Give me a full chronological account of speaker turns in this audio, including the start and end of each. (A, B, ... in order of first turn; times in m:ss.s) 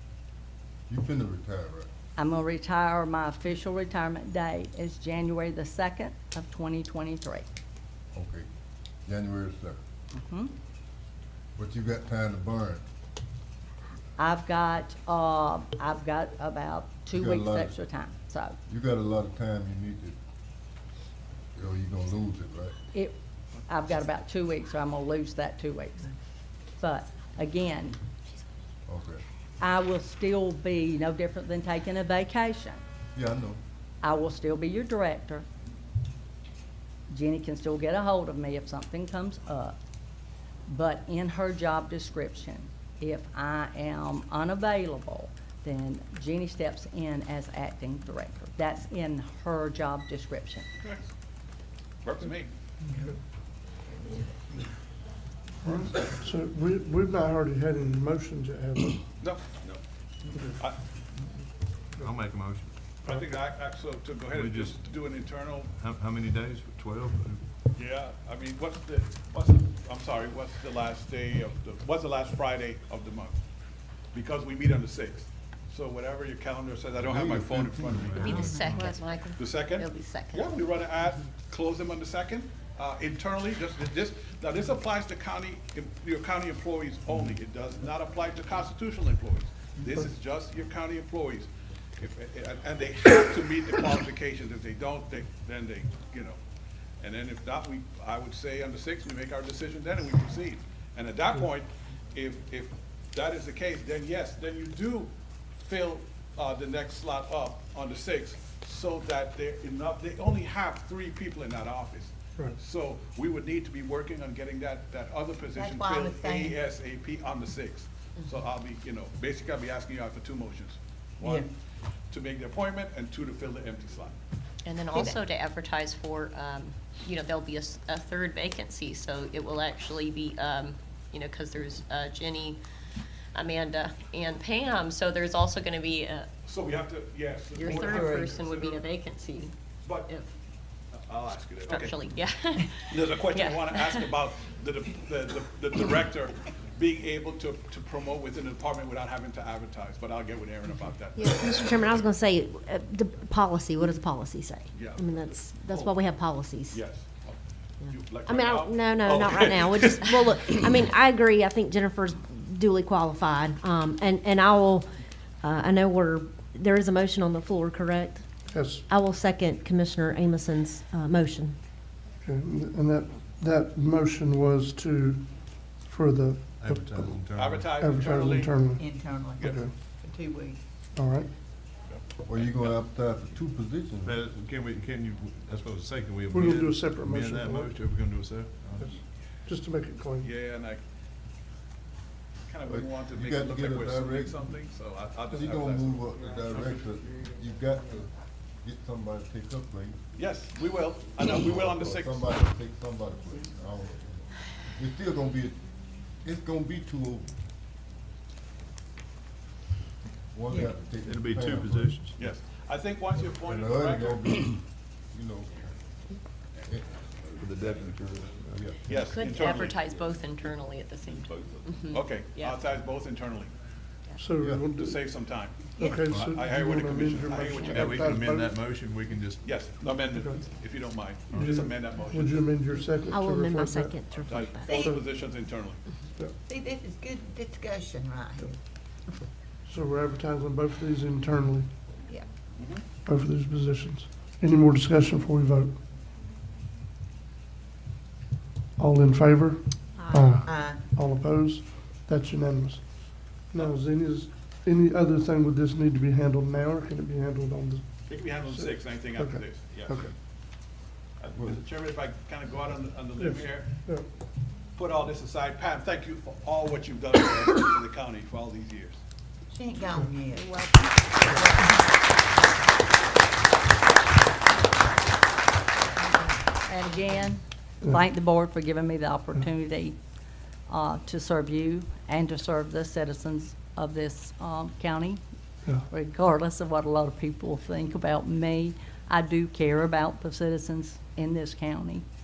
0:00.9-0:01.9 A
0:02.2-0:07.4 B
0:08.1-0:08.5 A
0:09.0-0:09.8 A
0:10.1-0:10.5 B
0:11.6-0:12.8 A
0:14.2-0:18.6 B
0:17.1-0:17.8 A
0:18.7-0:20.2 A
0:21.6-0:22.7 A
0:22.9-0:26.1 B
0:26.8-0:28.0 B
0:28.8-0:29.2 A
0:29.6-0:32.8 B
0:33.1-0:33.6 A
0:34.0-0:35.4 B
0:37.1-0:39.7 B
0:40.7-0:50.7 B
0:50.8-0:51.1 C
0:52.0-0:52.5 C
0:55.6-0:59.1 D
0:59.2-0:59.8 C
1:02.0-1:02.7 E
1:03.0-1:05.7 C
1:04.3-1:04.9 E
1:05.8-1:07.4 E
1:07.8-1:13.4 C
1:14.1-1:18.2 C
1:17.0-1:18.7 A
1:18.0-1:19.0 E
1:18.2-1:20.5 F
1:19.4-1:36.4 C
1:37.0-2:01.5 C
1:55.5-1:56.6 G
2:01.2-2:01.5 G
2:02.1-2:04.2 C
2:04.6-2:12.6 F
2:13.3-2:16.3 F
2:16.4-2:18.9 C
2:17.5-2:20.3 F
2:19.8-2:20.1 C
2:20.9-2:32.0 C
2:21.6-2:24.1 F
2:31.2-2:36.8 H
2:34.7-2:36.0 C
2:36.7-2:37.4 C
2:37.9-2:40.6 C
2:38.0-2:44.9 H
2:45.4-2:48.2 H
2:48.5-2:48.8 D
2:48.9-2:51.6 H
2:52.2-2:57.1 D
2:56.6-2:57.8 E
2:57.3-2:58.7 C
2:57.8-2:59.8 D
2:58.8-3:00.6 G
2:59.4-2:59.6 C
3:00.9-3:01.3 D
3:02.2-3:04.2 A
3:04.0-3:08.9 E
3:06.3-3:07.7 D
3:08.8-3:10.3 D
3:10.2-3:10.8 C
3:12.5-3:16.1 C
3:12.7-3:14.5 A
3:15.3-3:20.0 A
3:20.2-3:22.3 C
3:21.2-3:25.6 A
3:26.2-3:27.3 A
3:30.3-3:32.0 A
3:31.0-3:32.2 E
3:32.2-3:34.2 C
3:33.4-3:34.6 A
3:35.1-3:35.7 A
3:36.6-3:37.9 A
3:37.4-3:39.0 E
3:38.9-3:39.8 C
3:39.0-3:42.6 F
3:41.9-3:43.5 C
3:44.2-3:45.0 D
3:44.4-3:44.7 A
3:44.8-3:48.2 C
3:45.8-3:48.6 D
3:46.1-3:46.3 E
3:47.6-3:50.0 E
3:49.4-3:52.4 C
3:51.3-3:53.9 D
3:53.1-3:54.9 H
3:54.1-3:55.8 C
3:54.6-3:55.2 G
3:56.4-3:58.6 G
3:59.6-4:01.7 D
4:02.6-4:02.8 C
4:03.0-4:05.7 D
4:08.8-4:20.1 D
4:10.0-4:10.4 H
4:10.4-4:10.8 G
4:18.1-4:20.1 C
4:21.2-4:23.9 C
4:21.4-4:21.6 A
4:23.2-4:24.0 D
4:24.7-4:29.0 C
4:29.5-4:31.8 G
4:36.1-4:36.4 G
4:36.6-4:40.0 B
4:40.7-4:52.0 B